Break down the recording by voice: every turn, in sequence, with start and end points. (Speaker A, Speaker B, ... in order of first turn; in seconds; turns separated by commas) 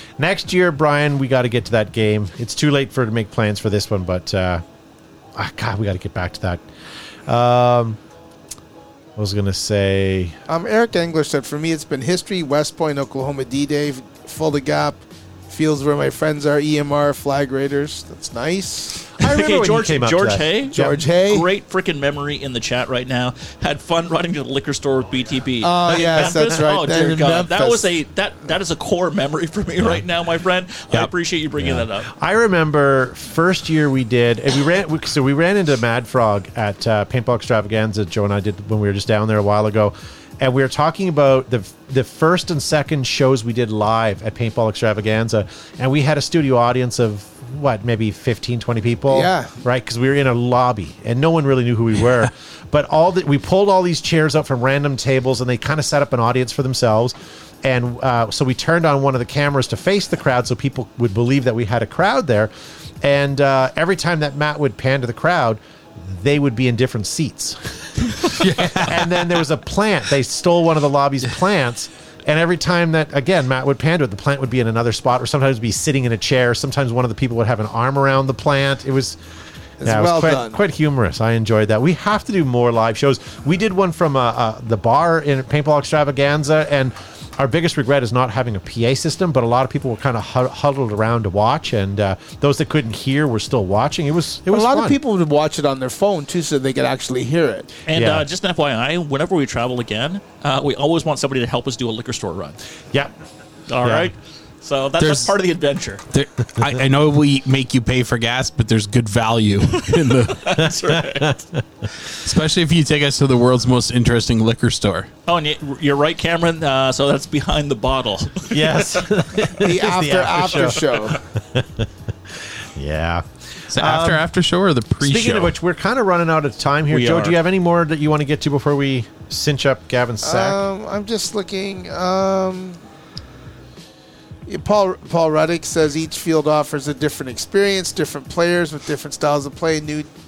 Speaker A: 0.2-4.6, Speaker A: 5.4-6.6, Speaker A: 7.3-8.0, Speaker A: 9.2-10.4, Speaker B: 10.5-19.0, Speaker A: 19.1-21.1, Speaker C: 19.2-32.1, Speaker B: 20.7-21.5, Speaker B: 25.6-27.9, Speaker A: 25.9-26.6, Speaker A: 31.6-62.5, Speaker B: 49.1-49.5, Speaker A: 63.0-79.2, Speaker D: 68.2-69.1, Speaker B: 79.8-80.6, Speaker A: 79.8-95.0, Speaker B: 94.5-97.8, Speaker C: 97.9-102.6, Speaker A: 97.9-98.3, Speaker C: 103.7-106.0, Speaker A: 103.8-104.1, Speaker D: 105.0-105.3, Speaker D: 106.1-110.6, Speaker C: 110.0-111.4, Speaker A: 111.0-111.6, Speaker D: 112.1-115.1, Speaker C: 115.3-119.0, Speaker A: 118.5-124.2, Speaker B: 119.6-121.2, Speaker D: 123.7-125.5, Speaker A: 125.0-130.6, Speaker C: 126.9-127.4, Speaker B: 130.2-132.8, Speaker B: 134.5-140.1